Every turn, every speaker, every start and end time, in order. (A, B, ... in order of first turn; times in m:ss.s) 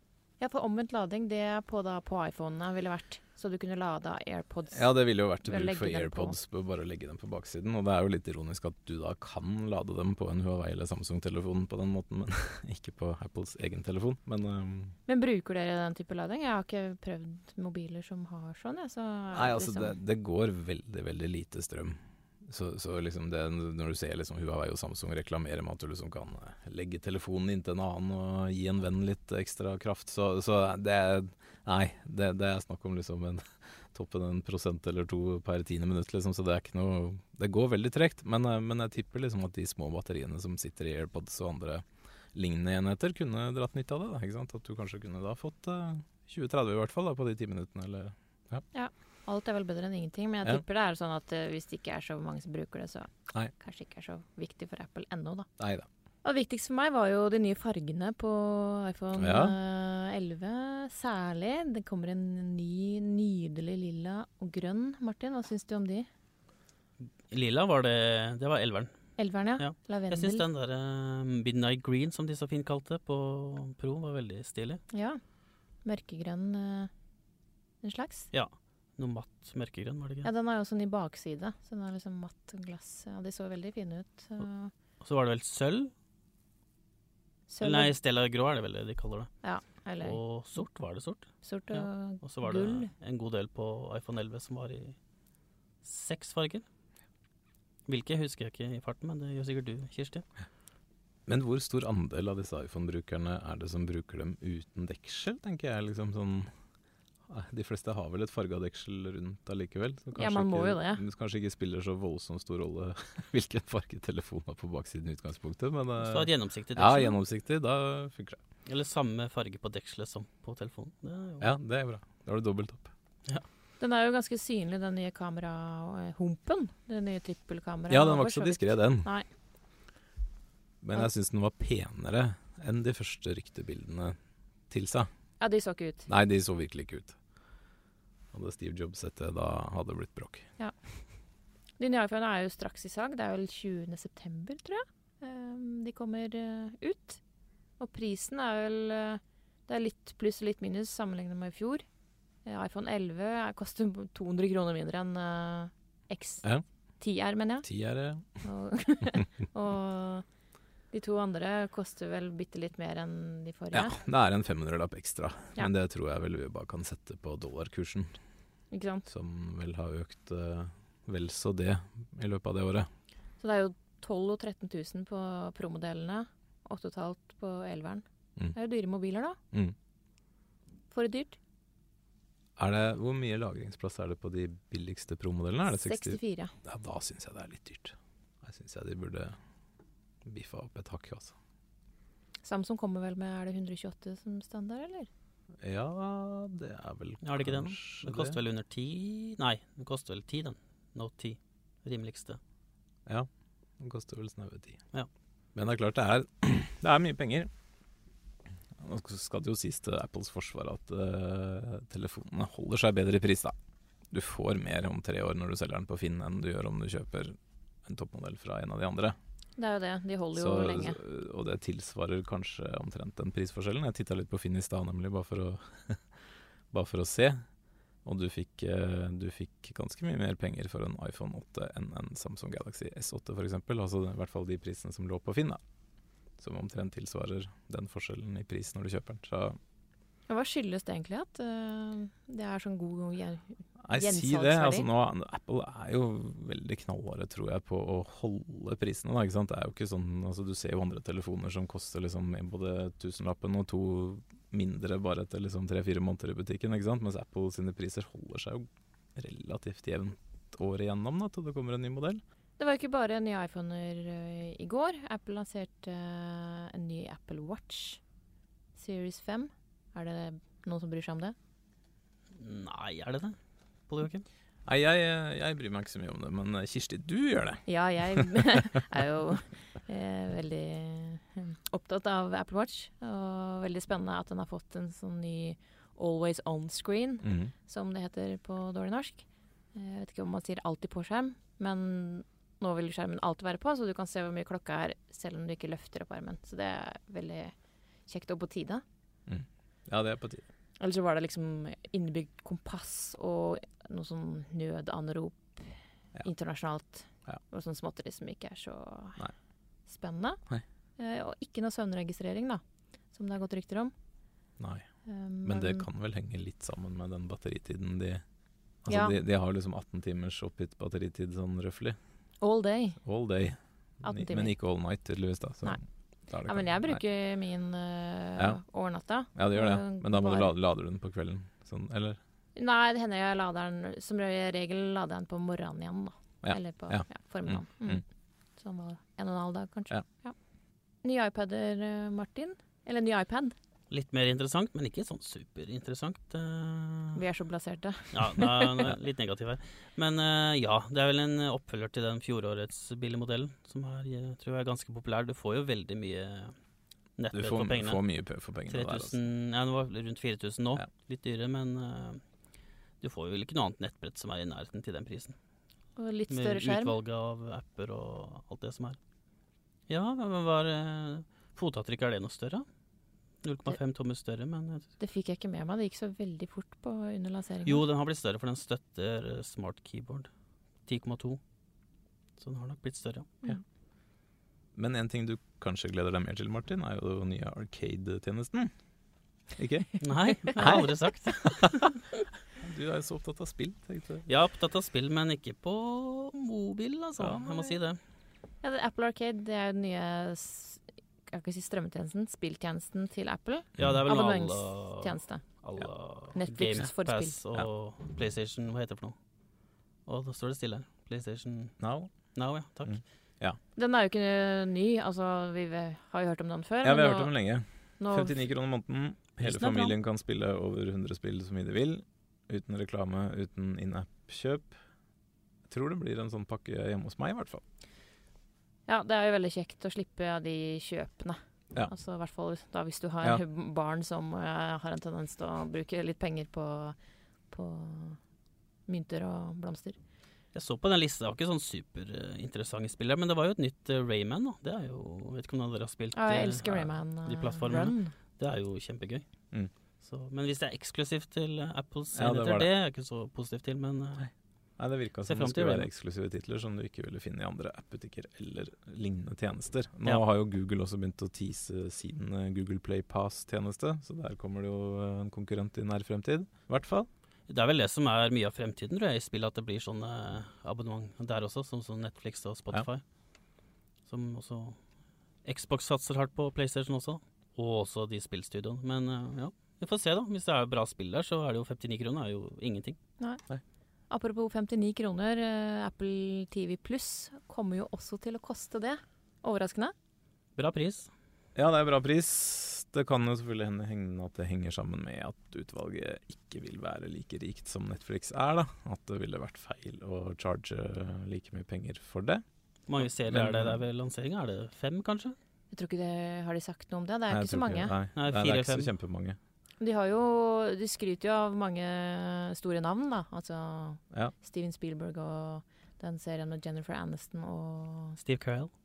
0:00.4-0:04.9 A
0:04.7-0:15.0 B
0:05.4-0:06.4 A
0:15.1-0:20.0 A
0:19.3-0:48.6 B
0:48.7-0:55.5 A
0:55.6-0:55.9 B
0:56.2-1:06.1 A
0:59.2-0:59.6 B
1:07.3-1:08.9 C
1:09.2-1:10.4 A
1:09.6-1:14.8 C
1:14.9-1:15.2 A
1:15.8-1:16.9 A
1:17.8-1:18.3 A
1:18.3-1:20.3 C
1:20.2-1:24.7 A
1:25.0-1:25.9 C
1:27.5-1:27.9 A
1:27.6-1:29.3 C
1:29.4-1:30.2 A
1:30.0-1:35.0 C
1:31.4-1:32.9 A
1:35.8-1:36.6 C
1:37.8-1:40.2 C
1:41.3-1:46.5 B
1:47.3-1:58.4 B
1:50.2-1:51.0 A
1:56.0-1:57.2 C
1:58.6-2:01.5 C
2:01.4-2:02.9 B
2:03.8-2:09.2 A
2:07.9-2:09.1 B
2:10.8-2:14.2 B
2:14.7-2:15.1 B
2:15.4-2:16.1 A
2:16.1-2:17.1 B
2:18.3-2:20.5 B
2:21.8-2:27.2 A
2:27.8-2:31.8 A
2:32.4-2:36.4 A
2:37.0-2:37.7 A
2:37.6-2:38.4 B
2:38.4-2:40.2 A
2:40.9-2:44.0 A
2:43.7-2:48.2 B
2:48.7-2:49.1 A
2:49.1-2:52.9 B
2:53.4-2:59.4 A
3:00.9-3:01.4 A
3:02.6-3:09.4 B
3:05.7-3:06.5 A
3:10.2-3:11.3 B
3:12.4-3:15.1 A
3:15.6-3:18.4 B
3:17.2-3:22.4 C
3:23.8-3:24.8 B
3:25.5-3:27.5 B
3:28.8-3:33.5 B
3:34.1-3:37.3 B
3:37.8-3:39.2 B
3:39.6-3:41.0 A
3:40.3-3:46.0 B
3:46.7-3:47.4 B
3:48.0-3:55.6 B
3:56.4-3:59.6 B
4:00.3-4:04.9 A
4:03.8-4:22.2 B
4:22.6-4:28.0 A
4:28.8-4:31.4 A
4:32.3-4:33.4 C
4:33.9-4:34.2 C
4:34.6-4:38.6 B
4:37.6-4:57.5 A
4:47.2-4:47.5 B
4:58.1-4:58.8 A
4:59.3-5:00.4 B
5:00.8-5:09.2 A
5:09.9-5:10.4 A
5:11.0-5:12.6 A
5:13.1-5:13.9 A
5:14.6-5:14.8 B
5:15.0-5:15.9 A
5:15.4-5:18.2 B
5:18.8-5:22.0 B
5:18.9-5:19.2 A
5:22.4-5:23.0 A
5:23.0-5:27.0 B
5:24.0-5:24.5 A
5:26.4-5:30.5 A
5:29.3-5:32.2 B
5:32.6-5:38.0 A
5:36.4-5:38.0 B
5:38.6-5:40.3 A
5:41.0-5:43.5 A
5:43.9-5:47.2 C
5:47.1-5:48.7 A
5:48.1-5:56.6 C
5:57.2-5:58.0 C
5:57.3-5:59.2 B
5:58.7-6:02.2 C
6:03.0-6:05.4 C
6:06.0-6:07.0 A
6:06.3-6:09.0 C
6:09.9-6:12.6 C
6:13.4-6:14.9 C
6:15.0-6:17.8 A
6:17.6-6:20.3 C
6:20.8-6:21.4 C
6:22.4-6:23.4 C
6:24.7-6:28.7 B
6:29.6-6:31.8 B
6:30.0-6:32.0 C
6:32.6-6:34.3 B
6:34.3-6:38.0 C
6:37.2-6:37.8 B
6:38.6-6:45.4 A
6:43.8-6:44.0 B
6:43.8-6:49.1 C
6:46.3-6:47.4 A
6:50.0-6:51.7 C
6:51.8-6:52.1 B
6:52.3-6:53.0 C
6:52.8-6:53.6 B
6:53.8-6:57.3 A
6:56.8-7:04.7 B
6:58.0-6:58.4 A
6:59.4-7:00.0 C
7:05.7-7:07.6 B
7:08.9-7:17.0 A
7:17.5-7:18.2 A
7:18.9-7:20.0 A
7:20.5-7:29.2 C
7:26.1-7:28.1 A
7:30.0-7:34.2 C
7:32.1-7:32.7 B
7:34.2-7:47.1 B
7:35.3-7:35.9 C
7:47.5-7:53.0 C
7:54.1-7:54.8 C
7:55.4-8:03.0 C
8:04.1-8:09.9 A
8:10.6-8:11.1 C
8:11.5-8:22.4 B
8:22.9-8:25.4 C
8:23.3-8:23.8 B
8:25.7-8:27.9 A
8:27.3-8:29.4 B
8:28.2-8:28.9 C
8:29.8-8:38.2 A
8:38.2-8:38.7 C